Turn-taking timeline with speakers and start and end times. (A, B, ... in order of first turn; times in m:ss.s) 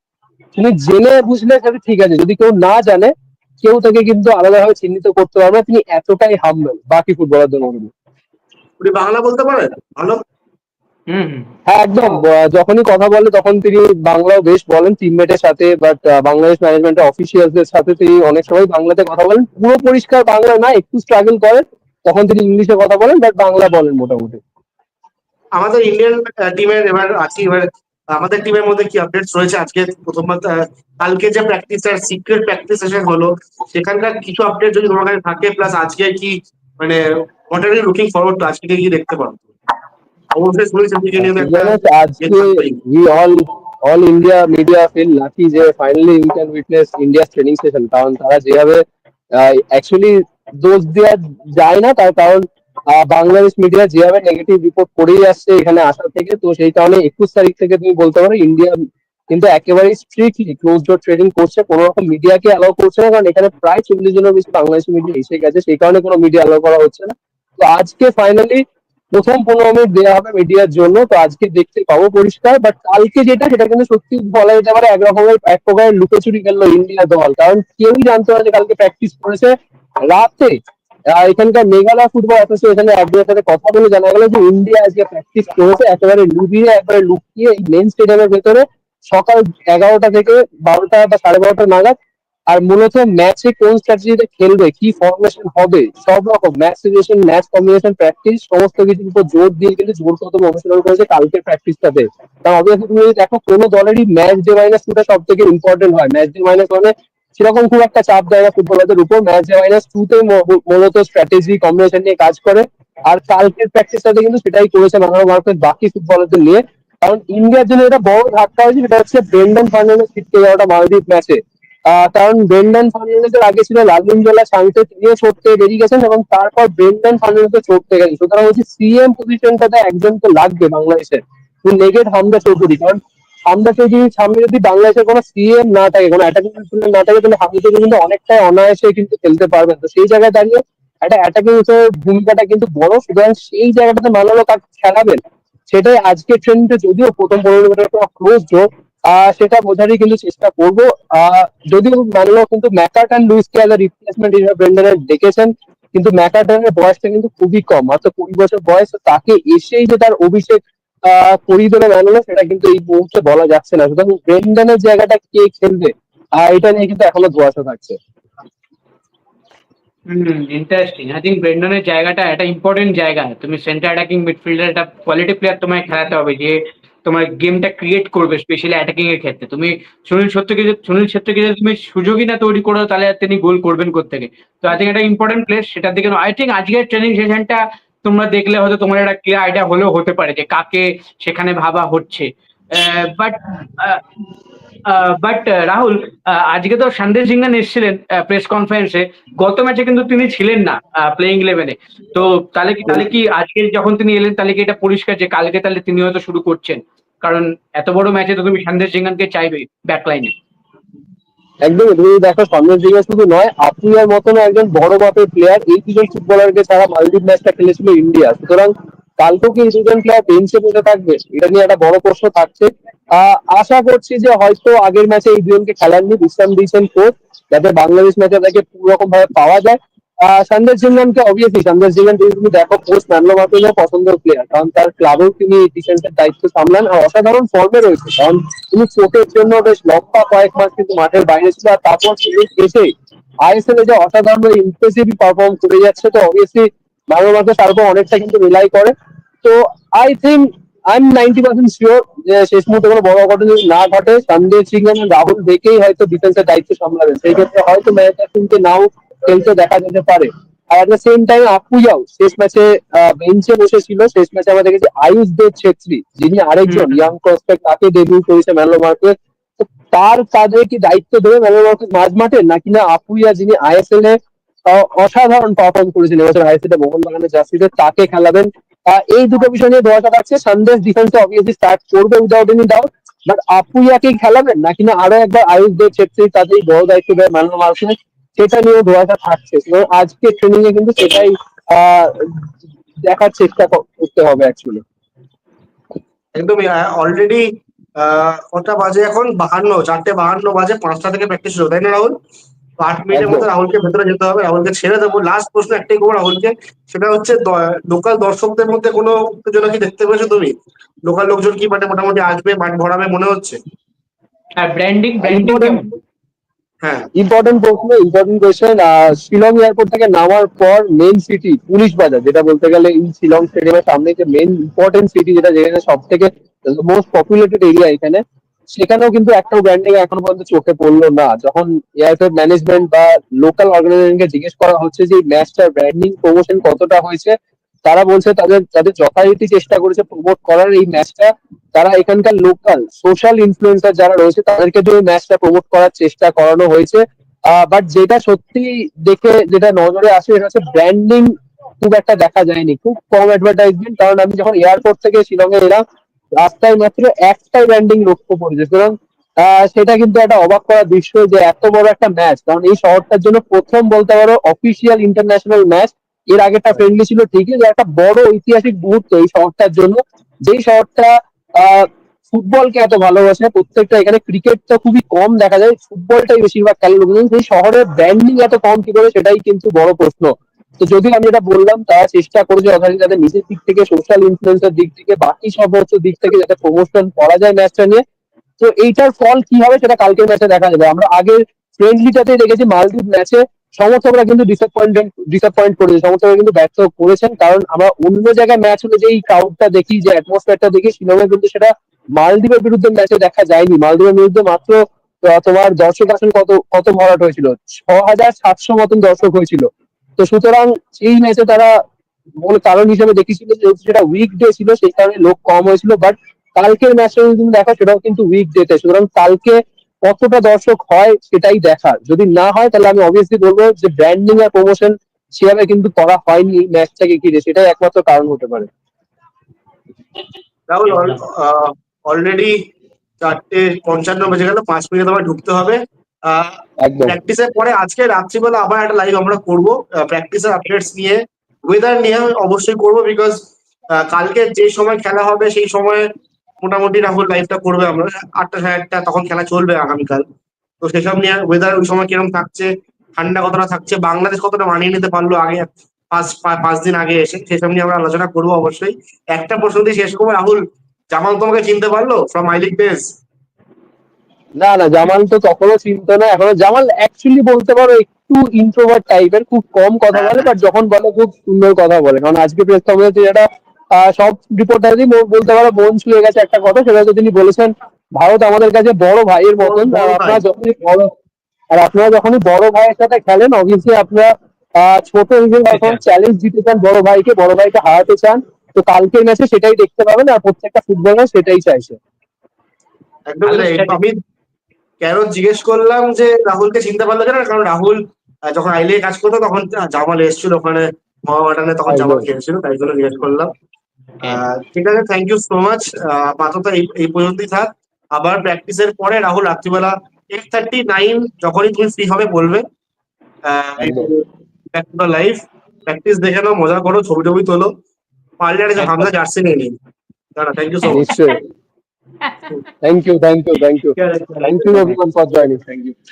0:00.6-0:07.9 A
0:08.8-0:10.2 B
0:11.1-0:11.5 C
0:11.7-0:24.4 A
0:25.6-0:39.4 B
0:40.3-0:42.8 B
0:41.2-1:20.6 A
1:21.1-1:32.0 A
1:32.5-2:48.0 A
2:50.1-3:14.0 C
3:14.9-3:30.3 C
3:31.6-4:02.9 A
4:03.4-4:54.8 A
4:26.7-4:27.1 C
4:56.4-5:02.2 B
5:02.8-5:10.6 B
5:03.1-5:03.5 A
5:11.1-5:13.6 B
5:14.6-5:15.9 C
5:15.2-5:16.0 A
5:16.8-5:17.1 B
5:17.2-5:28.2 A
5:28.8-5:55.8 A
5:56.4-6:28.0 A
6:28.6-6:51.8 A
6:52.4-7:08.7 A
7:10.7-7:12.7 B
7:13.2-7:26.1 B
7:16.8-7:17.2 A
7:26.6-7:30.2 B
7:30.8-7:43.1 B
7:44.6-8:01.1 A
7:50.2-7:50.4 B
7:59.6-8:00.4 B
8:01.7-8:12.0 A
8:05.7-8:06.0 C
8:13.3-8:14.2 B
8:13.5-8:14.0 C
8:15.0-8:23.5 B
8:21.9-8:22.3 A
8:24.2-8:32.6 B
8:33.5-8:34.2 B
8:33.8-8:34.1 A
8:34.7-8:37.7 B
8:38.4-8:39.8 B
8:38.8-8:39.1 C
8:40.4-8:41.1 B
8:40.9-8:41.3 C
8:40.9-8:41.4 A
8:42.2-8:42.5 C
8:42.8-8:46.0 A
8:44.0-8:45.0 C